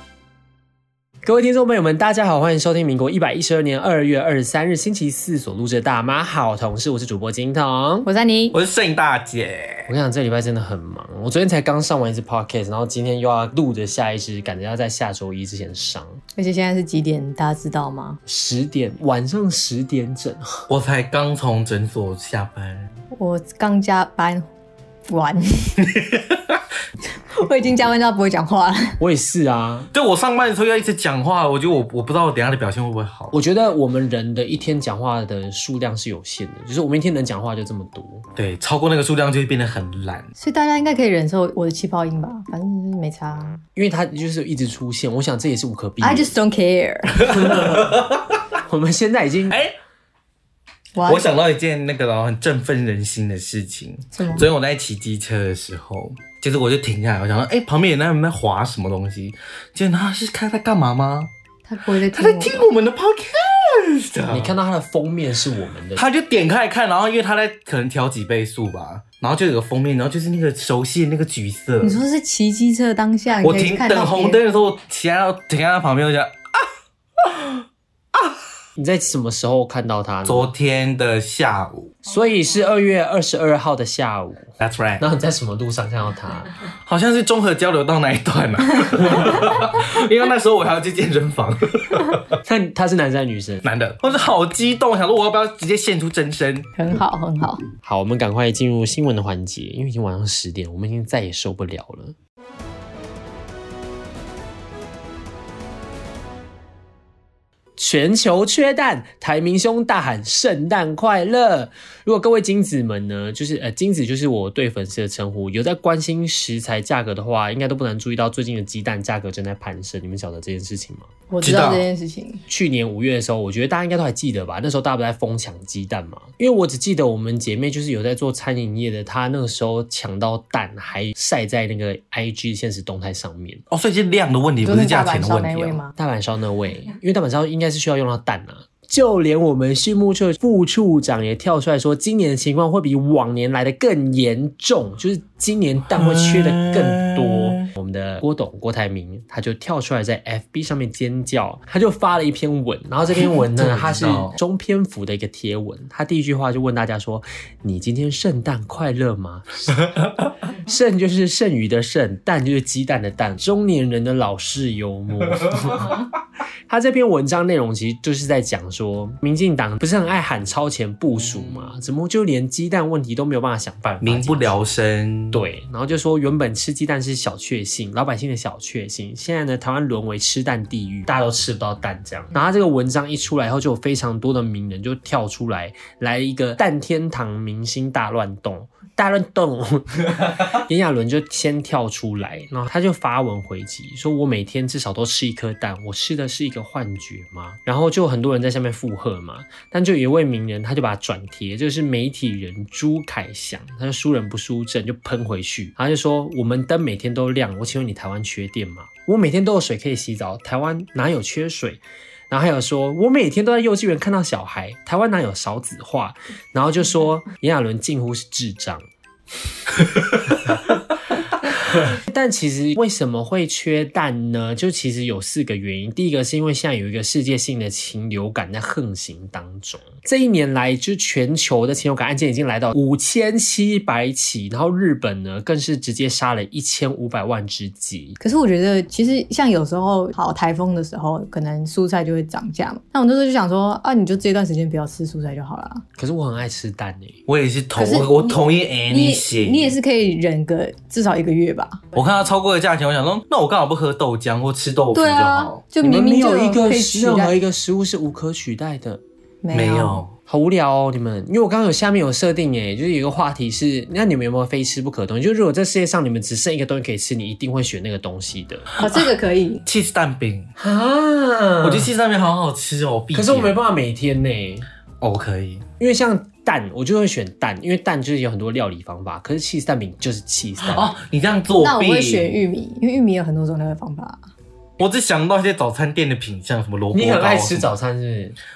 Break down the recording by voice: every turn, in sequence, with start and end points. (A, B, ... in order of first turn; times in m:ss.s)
0:01.2-0:08.1 A
0:08.0-0:08.6 B
0:08.5-0:09.9 C
0:09.9-0:16.2 A
0:16.4-0:18.2 B
0:18.2-0:20.6 A
0:20.7-0:22.9 C
0:23.1-0:24.5 B
0:25.1-0:25.8 B
0:25.8-0:26.6 C
0:27.3-0:29.0 B
0:29.0-0:29.9 A
0:29.9-0:33.3 C
0:33.3-0:38.3 A
0:38.4-0:40.3 C
0:40.4-0:43.6 B
0:43.7-0:46.3 A
0:46.0-0:47.4 B
0:47.2-0:48.1 A
0:47.2-0:48.6 C
0:48.7-0:49.6 A
0:49.5-0:49.7 C
0:50.9-0:51.3 B
0:51.0-1:01.3 C
0:54.1-0:54.5 B
1:01.7-1:02.7 B
1:01.8-1:04.6 C
1:04.3-1:06.0 A
1:05.9-1:12.0 C
1:11.8-1:14.4 B
1:13.4-1:18.4 C
1:18.8-1:20.5 A
1:20.2-1:22.0 C
1:22.0-1:26.5 A
1:24.6-1:25.0 C
1:26.8-1:32.4 C
1:32.4-1:33.6 A
1:33.6-1:36.7 C
1:36.8-1:37.6 B
1:37.8-1:42.1 A
1:47.8-2:01.1 A
2:01.3-2:02.4 B
2:01.4-2:01.8 C
2:02.5-2:13.6 A
2:13.7-2:15.8 C
2:14.6-2:15.9 B
2:16.0-2:39.9 A
2:25.9-2:27.7 C
2:33.1-2:34.4 C
2:39.8-2:40.3 C
2:40.6-2:46.1 A
2:45.4-2:45.9 C
2:46.7-2:54.6 A
2:51.3-2:51.7 C
2:54.0-2:55.4 C
2:55.3-3:38.8 A
3:41.7-3:58.2 A
3:58.2-4:05.8 B
4:06.0-4:07.2 A
4:07.3-4:09.8 C
4:07.8-4:11.8 B
4:11.9-4:15.6 C
4:14.9-4:17.4 B
4:15.8-4:19.0 A
4:19.4-4:20.0 B
4:19.5-4:20.1 C
4:20.3-4:28.7 A
4:28.8-4:29.6 B
4:28.8-4:29.1 C
4:29.6-4:30.5 C
4:30.6-4:31.9 A
4:31.6-4:33.5 C
4:33.1-4:34.7 A
4:35.0-4:35.6 C
4:35.8-4:40.9 A
4:40.6-4:42.4 C
4:41.6-4:44.2 B
4:44.8-4:47.7 C
4:46.9-4:48.4 A